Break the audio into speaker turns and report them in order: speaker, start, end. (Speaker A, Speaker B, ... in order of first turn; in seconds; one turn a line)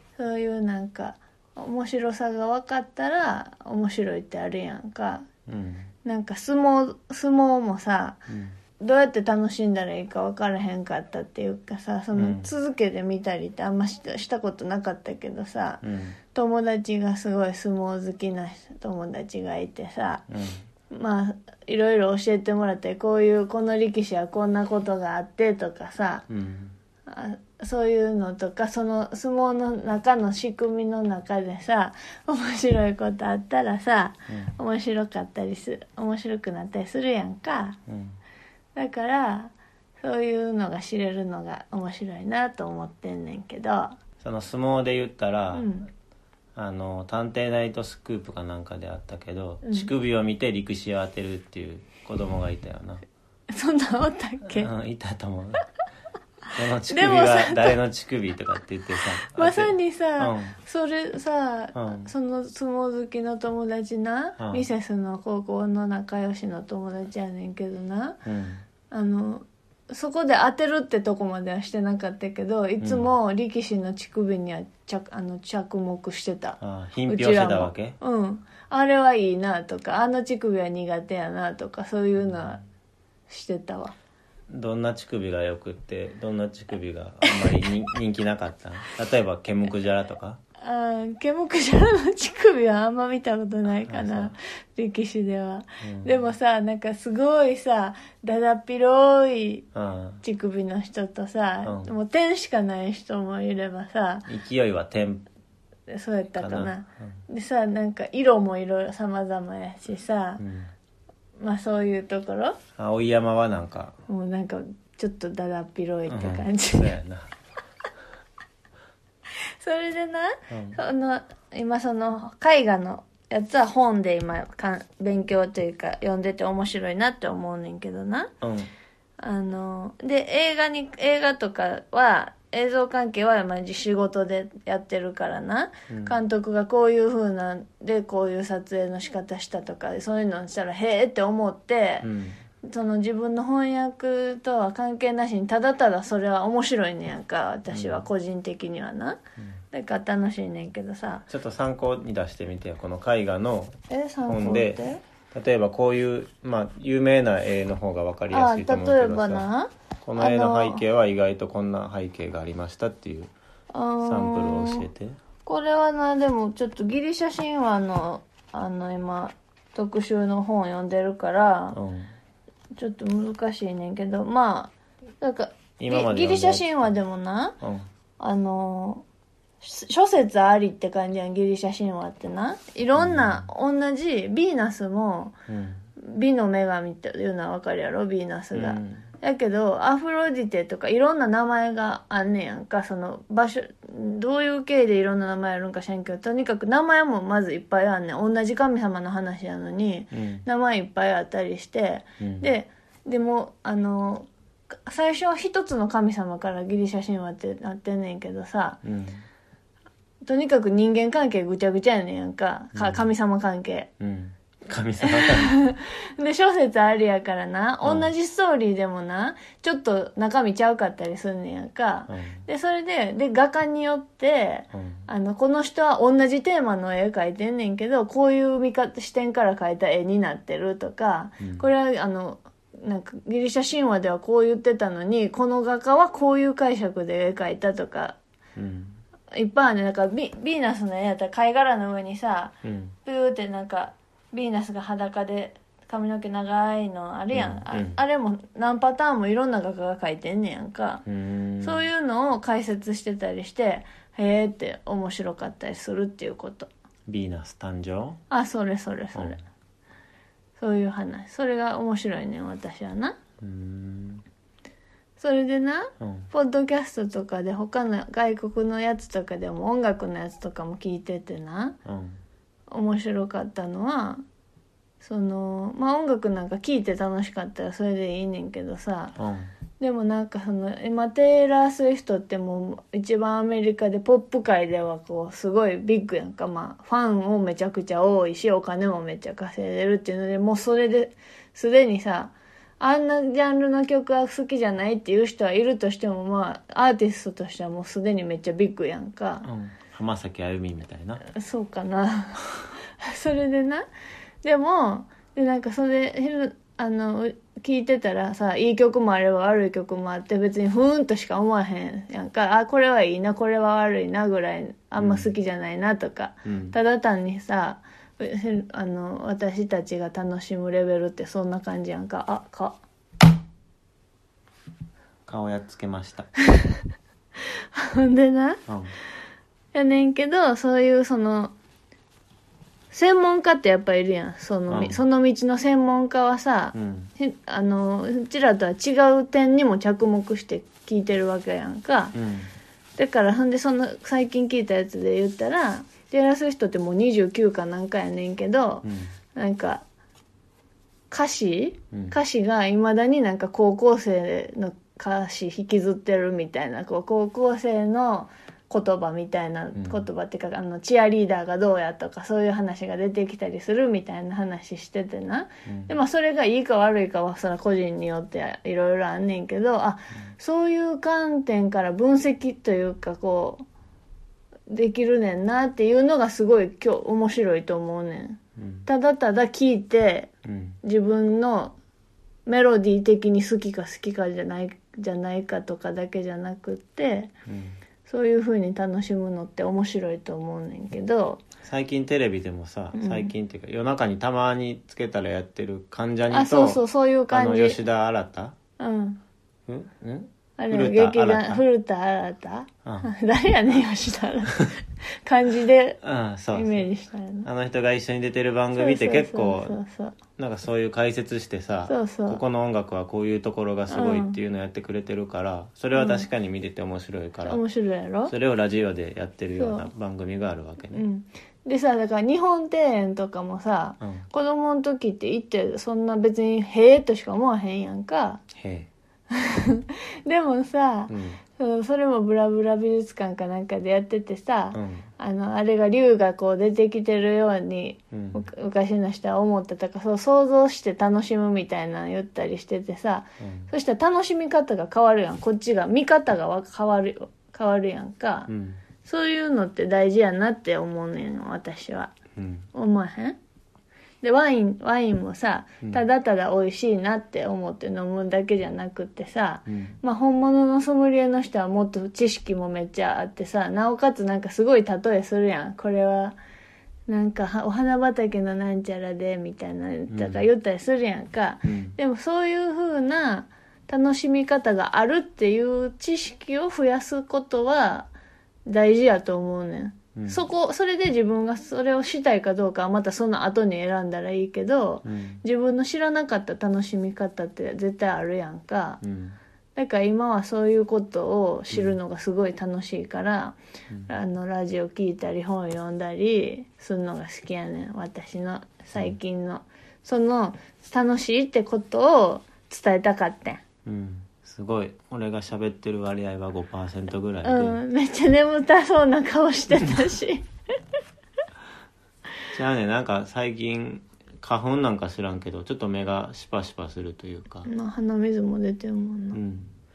Speaker A: 0.2-5.3
Speaker B: 5.5-5.9
Speaker A: 6.0-8.3
Speaker B: 8.3-8.6
Speaker A: 8.8-20.2
Speaker B: 12.2-12.5
Speaker B: 15.8-16.2
Speaker B: 20.3-20.6
Speaker A: 20.9-26.3
Speaker B: 26.3-26.8
Speaker A: 27.1-37.8
Speaker B: 34.3-34.5
Speaker B: 37.9-38.2
Speaker A: 38.8-44.0
Speaker B: 44.2-45.7
Speaker A: 45.5-45.9
Speaker B: 46.5-53.0
Speaker A: 49.6-49.9
Speaker A: 53.5-54.7
Speaker B: 54.5-55.6
Speaker B: 56.5-60.5
Speaker A: 56.9-57.8
Speaker A: 59.2-68.2
Speaker B: 61.8-62.1
Speaker B: 64.4-64.7
Speaker B: 68.2-68.6
Speaker A: 68.9-82.6
Speaker B: 72.8-73.1
Speaker B: 76.6-78.0
Speaker B: 82.2-82.6
Speaker A: 83.3-84.0
Speaker B: 84.5-90.4
Speaker A: 87.3-87.6
Speaker A: 90.6-99.7
Speaker B: 93.9-94.3
Speaker B: 95.8-96.2
Speaker B: 99.8-100.2
Speaker A: 100.2-104.3
Speaker B: 101.7-101.9
Speaker B: 104.3-105.3
Speaker A: 105.9-110.4
Speaker B: 106.4-107.1
Speaker B: 110.4-110.7
Speaker A: 111.4-112.6
Speaker B: 112.8-114.0
Speaker A: 114.1-117.0
Speaker B: 116.1-117.3
Speaker A: 119.6-128.3
Speaker B: 120.5-120.8
Speaker B: 128.4-128.7
Speaker A: 129.2-142.1
Speaker B: 135.9-136.2
Speaker B: 142.0-142.4
Speaker A: 142.6-149.2
Speaker B: 147.7-148.1
Speaker A: 149.7-151.3
Speaker B: 151.3-159.5
Speaker A: 153.9-155.0
Speaker A: 158.3-160.8
Speaker B: 160.0-163.3
Speaker A: 163.7-164.9
Speaker B: 164.0-165.2
Speaker A: 165.5-171.8
Speaker B: 171.7-172.1
Speaker A: 172.8-177.6
Speaker B: 175.8-176.9
Speaker B: 177.6-177.9
Speaker A: 178.2-179.0
Speaker A: 179.6-185.4
Speaker B: 183.0-183.5
Speaker B: 185.5-185.8
Speaker A: 186.0-204.3
Speaker B: 188.5-189.1
Speaker B: 200.1-200.4
Speaker B: 202.2-202.5
Speaker A: 204.9-208.8
Speaker B: 208.8-209.2
Speaker A: 210.2-213.9
Speaker B: 212.7-213.1
Speaker B: 214.0-215.6
Speaker A: 215.0-238.2
Speaker B: 217.8-218.1
Speaker B: 222.1-222.4
Speaker B: 224.7-225.1
Speaker B: 231.4-231.7
Speaker B: 238.6-239.0
Speaker A: 239.3-251.0
Speaker B: 242.6-242.9
Speaker B: 247.3-248.0
Speaker B: 251.1-251.9
Speaker A: 251.6-256.7
Speaker B: 257.1-258.2
Speaker A: 258.3-259.4
Speaker A: 260.6-263.2
Speaker B: 263.4-264.2
Speaker A: 265.2-271.8
Speaker B: 266.0-266.3
Speaker B: 271.9-272.2
Speaker A: 272.7-274.2
Speaker A: 275.0-279.1
Speaker B: 279.2-279.5
Speaker A: 279.8-299.5
Speaker B: 299.4-301.2
Speaker A: 301.2-303.9
Speaker A: 304.4-322.8
Speaker B: 315.0-315.3
Speaker B: 316.4-316.8
Speaker B: 325.3-326.3
Speaker A: 326.4-326.8
Speaker A: 327.4-328.6
Speaker B: 328.7-328.9
Speaker A: 329.7-331.5
Speaker A: 332.9-342.2
Speaker B: 334.7-335.0
Speaker B: 336.8-337.1
Speaker B: 342.1-342.5
Speaker A: 343.0-349.8
Speaker B: 348.8-349.1
Speaker A: 351.1-373.6
Speaker B: 359.8-360.1
Speaker B: 365.7-365.9
Speaker A: 374.7-380.3
Speaker B: 378.6-378.9
Speaker B: 380.4-380.8
Speaker A: 380.8-381.7
Speaker A: 382.5-387.3
Speaker B: 387.5-387.8
Speaker A: 388.1-391.4
Speaker B: 391.6-398.6
Speaker A: 392.9-393.3
Speaker A: 396.3-397.8
Speaker A: 398.8-399.2
Speaker B: 399.7-401.6
Speaker A: 400.6-406.0
Speaker B: 402.9-403.1
Speaker B: 406.0-406.9
Speaker A: 406.5-407.5
Speaker B: 407.4-409.8
Speaker A: 408.8-410.2
Speaker B: 410.4-417.6
Speaker A: 411.9-412.4
Speaker A: 413.9-414.4
Speaker A: 415.9-416.3
Speaker A: 417.4-418.3
Speaker B: 418.3-421.1
Speaker A: 419.6-419.9
Speaker A: 420.9-428.4
Speaker B: 424.0-424.3
Speaker B: 428.5-428.9
Speaker A: 429.3-448.5
Speaker B: 431.1-431.4
Speaker B: 434.7-435.1
Speaker B: 438.1-438.4
Speaker B: 443.4-443.7
Speaker B: 448.5-448.8
Speaker A: 449.0-452.1
Speaker B: 452.4-452.7
Speaker A: 452.7-453.4
Speaker A: 454.2-466.4
Speaker B: 459.7-460.0
Speaker A: 467.1-478.1
Speaker B: 470.1-470.5
Speaker B: 471.6-472.0
Speaker A: 478.7-489.0
Speaker B: 480.1-480.4
Speaker B: 485.0-485.4
Speaker B: 489.0-489.4
Speaker A: 489.8-493.6
Speaker B: 491.7-492.0
Speaker A: 494.1-503.6
Speaker B: 503.9-507.8
Speaker A: 507.4-510.5
Speaker B: 512.5-517.7
Speaker A: 517.7-519.4
Speaker B: 519.3-519.7